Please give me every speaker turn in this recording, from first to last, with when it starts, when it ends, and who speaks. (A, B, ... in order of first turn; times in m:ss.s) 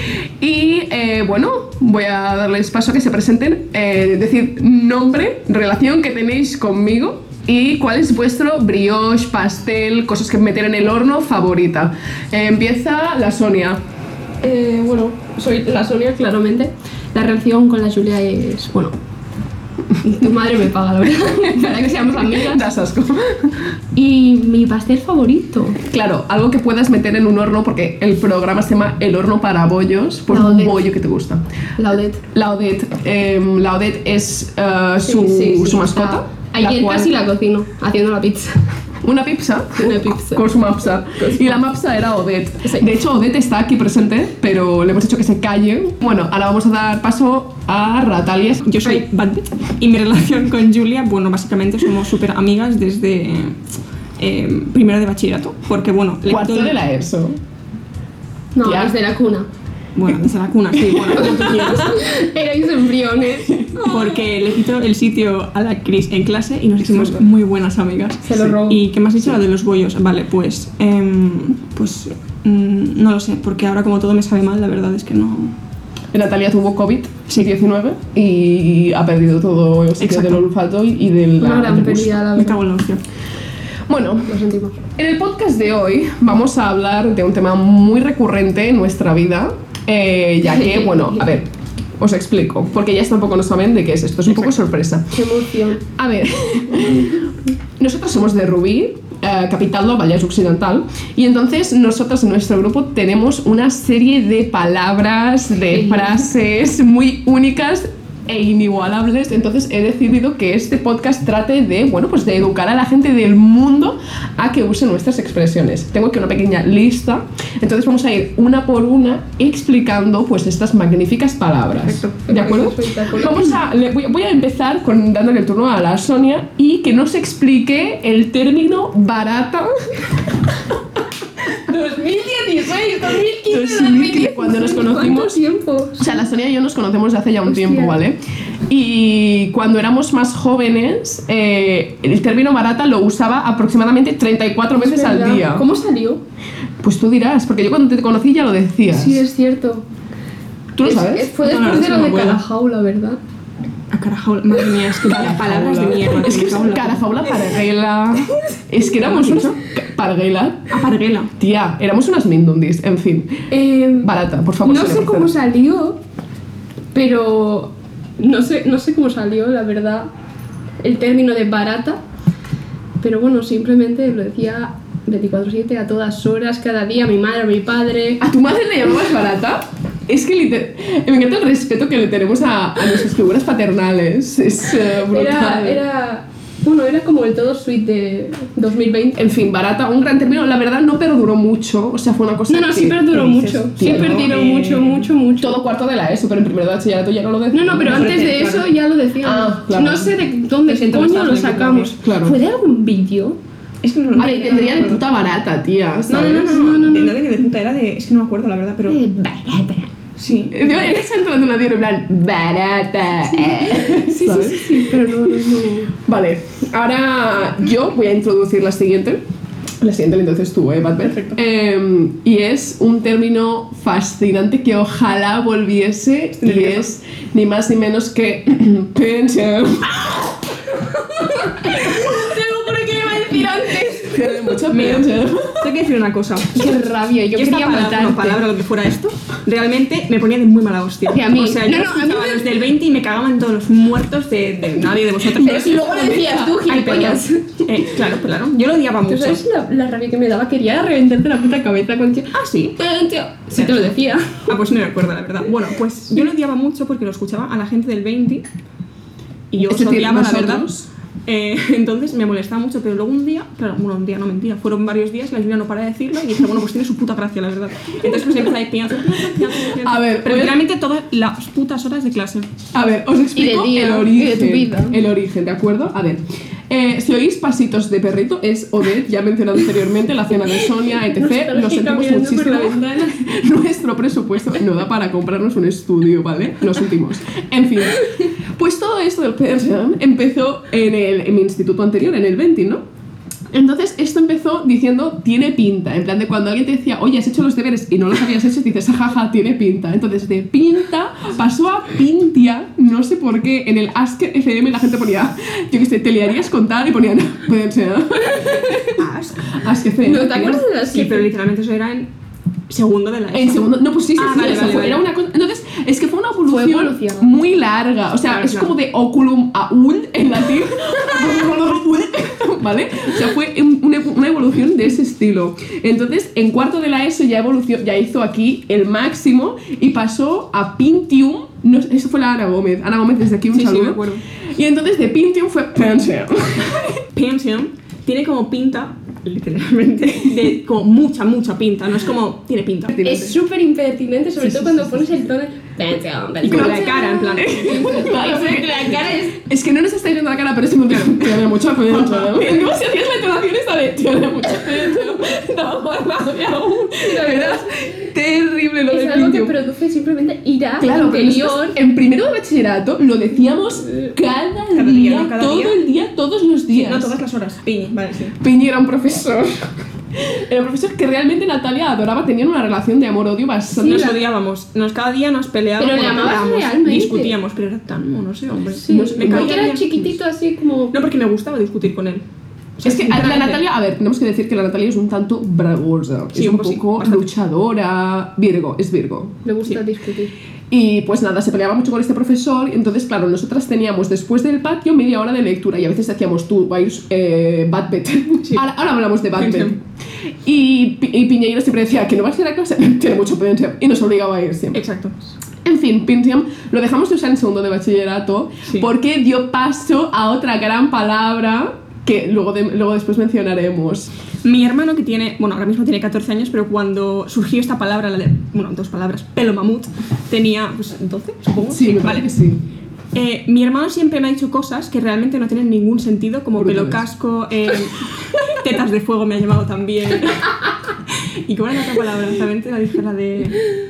0:00.4-0:13.8 A
0:14.4-0:19.0 B
0:20.0-0:22.8 B
0:21.5-0:23.7 A
0:24.0-0:25.8 B
0:25.8-0:31.4 A
0:30.3-0:30.8 B
0:31.8-0:32.2 B
0:32.2-0:37.1 A
0:35.0-0:38.6 B
0:39.0-0:48.8 A
0:39.7-0:40.5 B
0:41.2-0:41.6 B
0:48.6-0:53.6 C
0:54.2-0:56.8 C
0:56.3-0:57.4 A
0:58.6-0:59.5 B
0:58.6-0:58.9 A
1:00.0-1:02.0 C
1:00.7-1:02.0 A
1:01.3-1:04.2 B
1:03.5-1:03.8 A
1:03.8-1:15.5 C
1:06.9-1:07.2 A
1:08.2-1:08.8 B
1:16.1-1:22.3 A
1:20.0-1:20.4 C
1:21.4-1:22.6 B
1:22.4-1:23.0 C
1:23.9-1:35.2 A
1:24.3-1:24.8 B
1:30.4-1:31.2 B
1:35.1-1:35.8 B
1:35.8-2:10.6 A
1:45.7-1:46.2 B
2:01.8-2:03.6 B
2:11.5-2:16.2 B
2:13.5-2:15.4 A
2:16.0-2:25.7 A
2:17.5-2:18.0 B
2:24.8-2:26.2 B
2:26.8-2:29.2 A
2:28.9-2:29.8 B
2:30.8-2:31.3 A
2:30.8-2:33.2 B
2:30.9-2:32.4 C
2:33.9-2:37.0 C
2:35.0-2:40.8 A
2:38.9-2:39.6 C
2:40.7-2:41.3 C
2:41.4-2:43.5 A
2:43.5-2:44.1 B
2:44.0-2:45.3 A
2:44.6-2:46.0 B
2:46.9-2:50.1 B
2:50.8-2:52.0 B
2:53.0-2:58.2 B
2:58.2-3:05.8 A
3:05.1-3:09.2 B
3:09.2-3:14.4 A
3:12.5-3:15.6 B
3:13.2-3:15.1 C
3:15.4-3:18.4 A
3:17.5-3:23.4 B
3:17.8-3:18.7 C
3:19.2-3:20.2 A
3:20.6-3:22.0 C
3:22.0-3:22.4 A
3:23.8-3:25.0 C
3:24.2-3:26.6 A
3:26.1-3:29.0 C
3:26.1-3:27.2 B
3:28.9-3:29.9 B
3:30.2-3:30.9 C
3:30.5-3:35.5 A
3:33.4-3:36.0 B
3:36.0-3:39.2 A
3:39.8-3:50.5 A
3:41.0-3:41.4 C
3:46.4-3:46.9 C
3:50.8-3:54.5 B
3:51.5-3:52.2 A
3:53.7-3:55.7 A
3:54.7-3:56.7 C
3:56.5-3:58.4 B
3:57.3-4:09.4 C
4:01.1-4:02.6 B
4:05.3-4:07.9 B
4:05.5-4:06.6 A
4:09.0-4:14.4 B
4:12.3-4:12.8 C
4:13.5-4:13.8 C
4:14.5-4:18.4 C
4:19.5-4:20.7 C
4:19.6-4:20.9 A
4:21.3-4:32.5 C
4:29.8-4:30.6 A
4:32.7-4:52.8 A
4:33.4-4:35.0 B
4:41.0-4:43.0 B
4:53.5-5:08.7 A
5:08.2-5:09.0 B
5:09.0-5:09.4 C
5:09.4-5:10.6 A
5:10.0-5:11.3 B
5:10.9-5:12.1 C
5:12.7-5:15.0 C
5:13.3-5:37.0 A
5:16.5-5:17.3 B
5:18.3-5:18.7 C
5:33.5-5:34.2 C
5:37.1-5:43.2 C
5:42.9-5:43.3 A
5:43.0-5:49.4 B
5:44.4-5:45.2 A
5:46.4-5:48.1 C
5:46.4-5:59.6 A
5:52.0-5:52.3 C
5:57.0-5:57.8 B
5:58.9-6:01.8 B
6:00.8-6:07.2 A
6:04.7-6:05.8 C
6:06.7-6:08.4 C
6:08.4-6:14.2 A
6:13.8-6:14.2 B
6:13.8-6:19.9 C
6:15.8-6:17.4 B
6:18.7-6:21.0 B
6:18.9-6:20.1 A
6:20.9-6:22.2 C
6:22.8-6:23.6 C
6:22.8-6:29.4 A
6:26.3-6:27.3 C
6:29.4-6:30.3 B
6:30.7-6:39.8 A
6:39.4-6:39.7 C
6:40.4-6:44.8 A
6:44.7-6:45.2 C
6:45.6-6:54.1 A
6:54.4-7:02.3 C
7:01.7-7:02.6 A
7:03.1-7:13.7 C
7:06.6-7:07.0 A